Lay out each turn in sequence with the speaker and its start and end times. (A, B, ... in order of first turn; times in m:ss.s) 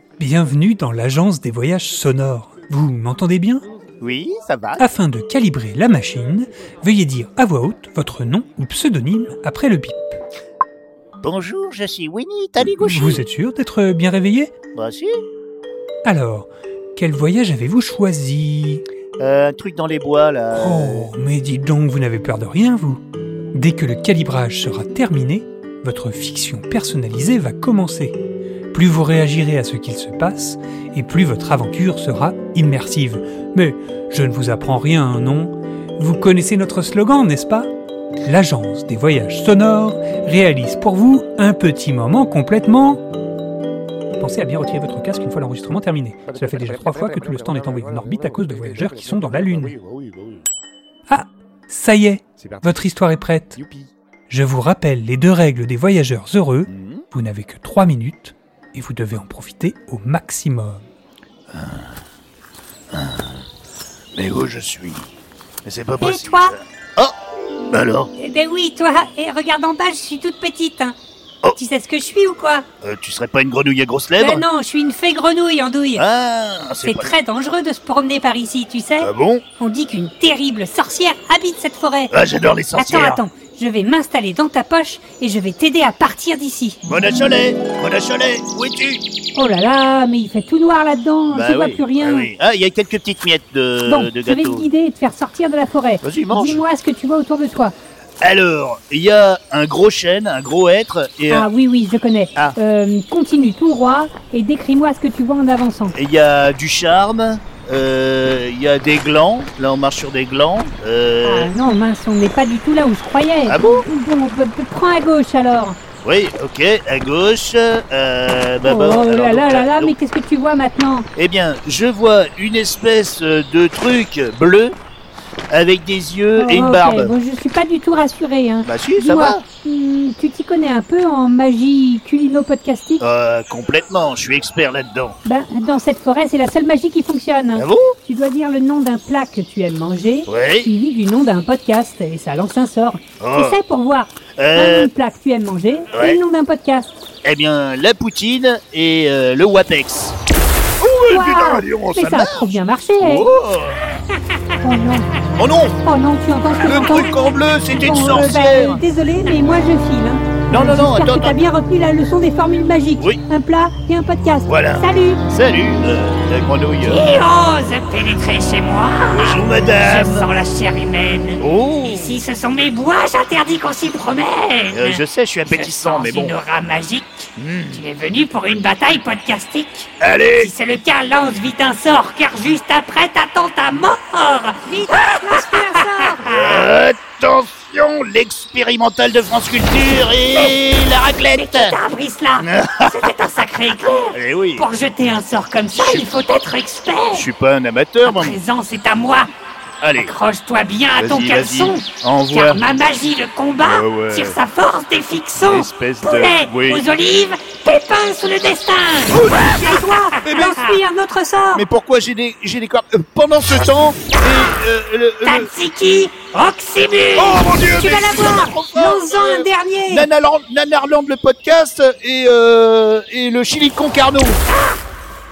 0:00.2-0:03.7 A
0:04.0-0:04.8 B
0:04.8-0:10.2 A
0:11.2-0:13.2 B
0:12.7-0:14.5 A
0:14.8-0:15.1 B
0:16.0-0:18.8 A
0:19.2-0:21.1 B
0:20.5-0:23.0 A
0:23.5-0:28.2 A
0:28.7-0:37.7 A
0:38.2-0:43.0 A
0:44.2-0:49.8 A
0:46.3-0:50.4 C
0:51.1-0:53.6 A
0:52.4-0:52.7 C
0:53.6-0:53.9 C
0:54.3-1:00.8 A
0:56.7-0:57.0 B
1:01.5-1:02.0 B
1:02.9-1:03.4 B
1:04.2-1:05.1 B
1:05.6-1:07.2 B
1:06.0-1:06.6 D
1:07.7-1:08.1 B
1:08.2-1:11.0 D
1:11.6-1:12.7 D
1:12.8-1:14.4 B
1:14.2-1:16.0 D
1:16.0-1:17.1 B
1:16.8-1:22.1 D
1:19.0-1:19.4 B
1:22.1-1:23.2 B
1:22.7-1:26.8 D
1:26.8-1:29.0 B
1:29.4-1:32.3 D
1:31.3-1:34.7 B
1:33.8-1:37.8 D
1:36.0-1:36.6 B
1:38.2-1:41.5 B
1:41.3-1:46.0 D
1:45.9-1:51.5 B
1:51.2-1:55.8 D
1:53.5-1:53.9 B
1:56.0-2:00.0 B
1:58.6-2:01.1 D
2:01.2-2:04.8 B
2:05.5-2:07.1 B
2:06.4-2:13.0 D
2:08.6-2:09.4 B
2:13.0-2:15.2 B
2:15.2-2:27.0 D
2:17.6-2:18.0 B
2:20.3-2:20.7 B
2:23.2-2:23.6 B
2:24.4-2:24.9 B
2:25.9-2:26.2 B
2:27.2-2:30.2 B
2:30.8-2:33.8 B
2:31.1-2:33.3 D
2:34.6-2:35.1 D
2:35.4-2:35.8 B
2:35.8-2:37.2 D
2:36.6-2:38.8 B
2:37.7-2:45.2 D
2:40.5-2:41.4 B
2:44.5-2:47.2 B
2:46.8-3:06.7 E
2:49.1-2:50.3 B
2:51.4-2:52.2 B
2:54.7-2:56.4 B
2:57.4-2:57.9 B
3:00.0-3:00.5 B
3:04.7-3:06.2 D
3:06.2-3:11.8 B
3:11.3-3:17.3 E
3:12.4-3:13.3 B
3:14.1-3:14.7 B
3:15.7-3:16.1 B
3:17.1-3:18.4 B
3:18.0-3:19.3 E
3:19.8-3:20.2 B
3:20.0-3:29.2 E
3:21.0-3:22.6 B
3:23.6-3:24.4 B
3:25.4-3:26.9 B
3:29.1-3:30.8 B
3:29.4-3:31.7 D
3:31.5-3:35.5 B
3:34.2-3:34.5 E
3:35.2-3:37.5 E
3:37.2-3:44.4 B
3:37.6-3:40.1 D
3:44.5-3:44.8 E